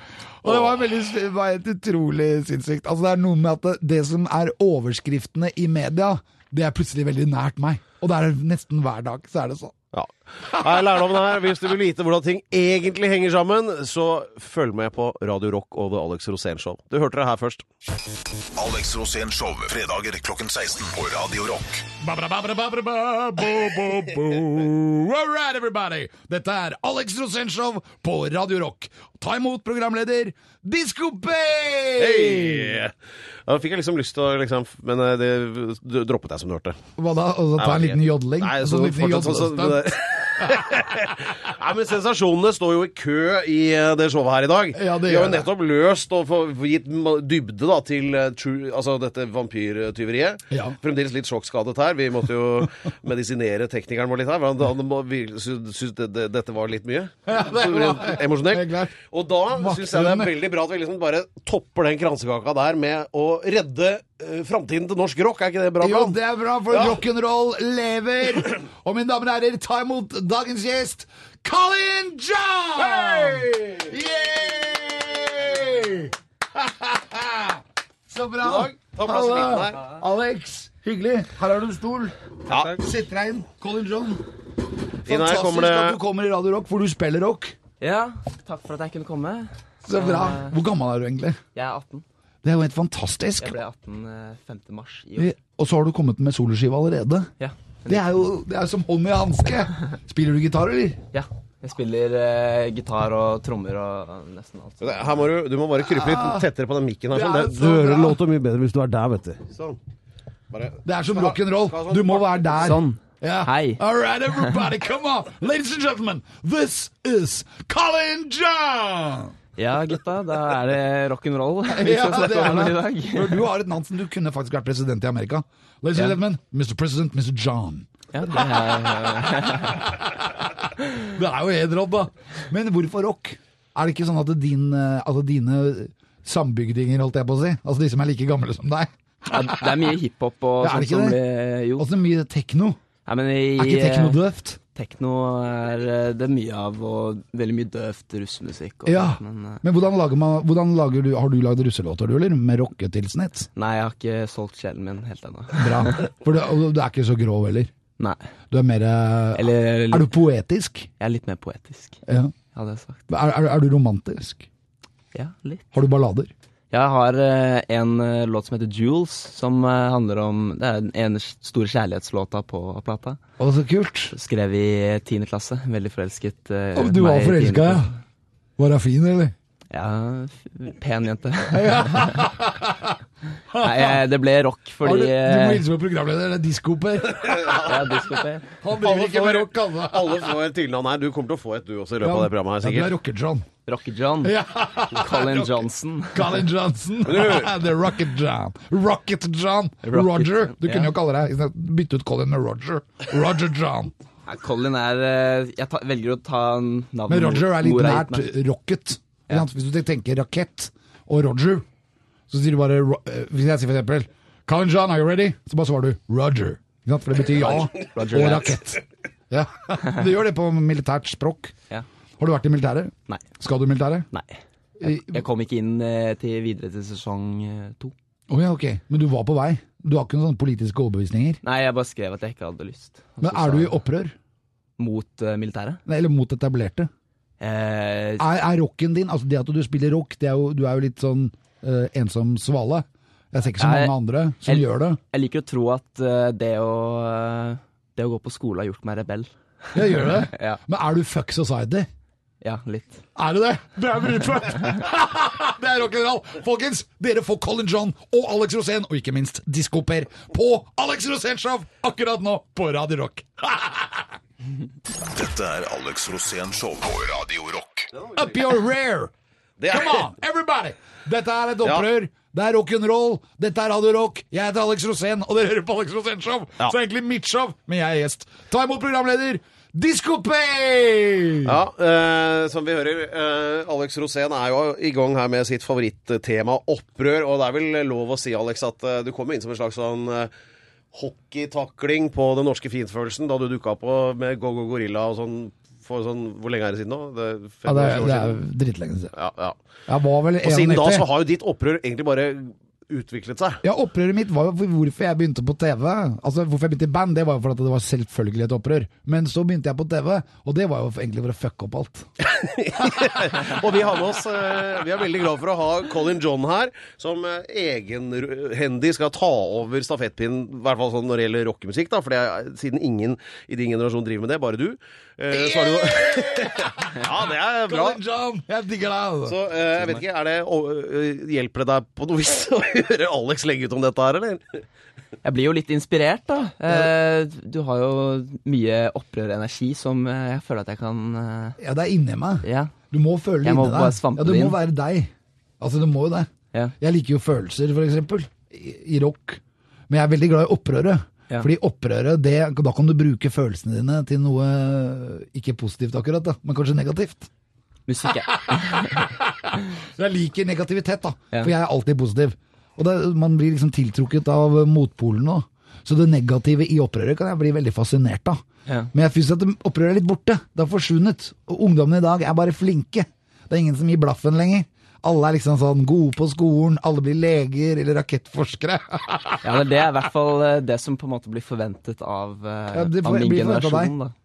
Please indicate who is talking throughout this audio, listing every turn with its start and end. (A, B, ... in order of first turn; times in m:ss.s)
0:00.4-0:09.8 A
0:00.4-0:00.8 B
0:09.9-0:17.6 B
0:18.5-0:21.9 C
0:22.0-0:32.8 A
0:32.0-0:32.9 B
0:33.5-0:36.8 B
0:37.0-0:40.8 A
0:37.6-1:06.2 B
0:44.7-0:45.5 A
0:50.5-0:50.8 A
0:57.3-0:59.0 A
0:59.5-1:00.3 A
1:05.8-1:24.3 A
1:06.7-1:07.0 B
1:12.9-1:13.5 B
1:18.4-1:19.8 B
1:22.5-1:22.8 B
1:25.0-1:27.6 A
1:25.1-1:26.0 B
1:27.8-1:30.6 D
1:29.8-1:31.4 A
1:31.6-1:32.0 D
1:32.4-1:33.6 A
1:33.4-1:35.4 D
1:35.2-1:37.3 A
1:37.4-1:38.0 D
1:37.9-1:41.0 A
1:41.1-1:45.2 D
1:44.8-1:49.8 B
1:45.8-1:46.5 A
1:47.1-1:48.2 A
1:50.5-1:52.8 B
1:50.8-1:59.3 A
1:52.6-1:53.8 D
1:59.6-2:03.5 D
2:01.7-2:19.9 A
2:08.1-2:09.9 D
2:19.3-2:21.9 D
2:20.6-2:21.2 A
2:21.8-2:22.8 A
2:23.0-2:24.2 D
2:23.6-2:24.6 A
2:24.8-2:29.6 D
2:28.8-2:33.5 A
2:33.6-2:36.1 D
2:35.5-2:37.7 A
2:38.5-2:40.9 A
2:39.4-2:40.1 D
2:41.0-2:42.0 D
2:42.1-2:42.4 A
2:42.5-2:43.0 D
2:43.1-2:44.5 A
2:45.1-2:45.7 D
2:45.7-2:46.3 A
2:46.7-2:53.2 D
2:53.4-2:54.1 A
2:54.1-2:57.9 D
2:56.8-2:57.9 A
2:58.6-2:59.4 A
2:59.7-3:02.3 D
3:01.5-3:03.0 A
3:03.5-3:04.0 A
3:03.6-3:05.6 D
3:04.8-3:07.7 A
3:07.2-3:07.8 B
3:07.6-3:08.5 D
3:08.6-3:10.3 A
3:08.8-3:12.9 B
3:12.0-3:13.5 A
3:13.7-3:14.4 D
3:14.2-3:23.9 A
3:14.9-3:16.4 D
3:17.0-3:17.5 B
3:19.8-3:20.9 D
3:24.3-3:28.3 D
3:27.1-3:31.7 A
3:32.3-3:41.5 A
3:37.7-3:38.6 D
3:42.2-3:44.1 A
3:44.1-3:47.9 D
3:44.8-3:45.2 A
3:48.3-3:51.4 A
3:51.4-3:53.8 D
3:53.2-3:54.2 A
3:54.8-3:55.8 D
3:55.9-3:56.9 A
3:57.4-3:58.3 D
3:58.2-4:05.0 A
4:03.6-4:10.6 D
4:09.7-4:11.9 A
4:12.4-4:13.0 D
4:13.2-4:24.1 A
4:25.1-4:27.9 C
4:28.1-4:29.1 A
4:29.6-4:30.1 B
4:29.7-4:41.6 A
4:41.4-4:50.3 B
4:50.9-4:58.4 B
4:57.7-4:59.1 A
4:59.2-4:59.6 B
4:59.9-5:01.1 A
5:00.4-5:03.6 B
5:03.6-5:12.1 A
5:12.2-5:28.0 B
5:25.3-5:29.4 A
5:29.3-5:34.6 B
5:35.2-5:41.6 D
5:41.6-5:57.3 A
5:42.4-5:42.7 D
5:43.4-5:44.6 D
5:57.9-5:59.1 D
5:58.5-6:08.4 A
6:08.9-6:19.6 A
6:19.4-6:24.1 D
6:22.7-6:23.9 A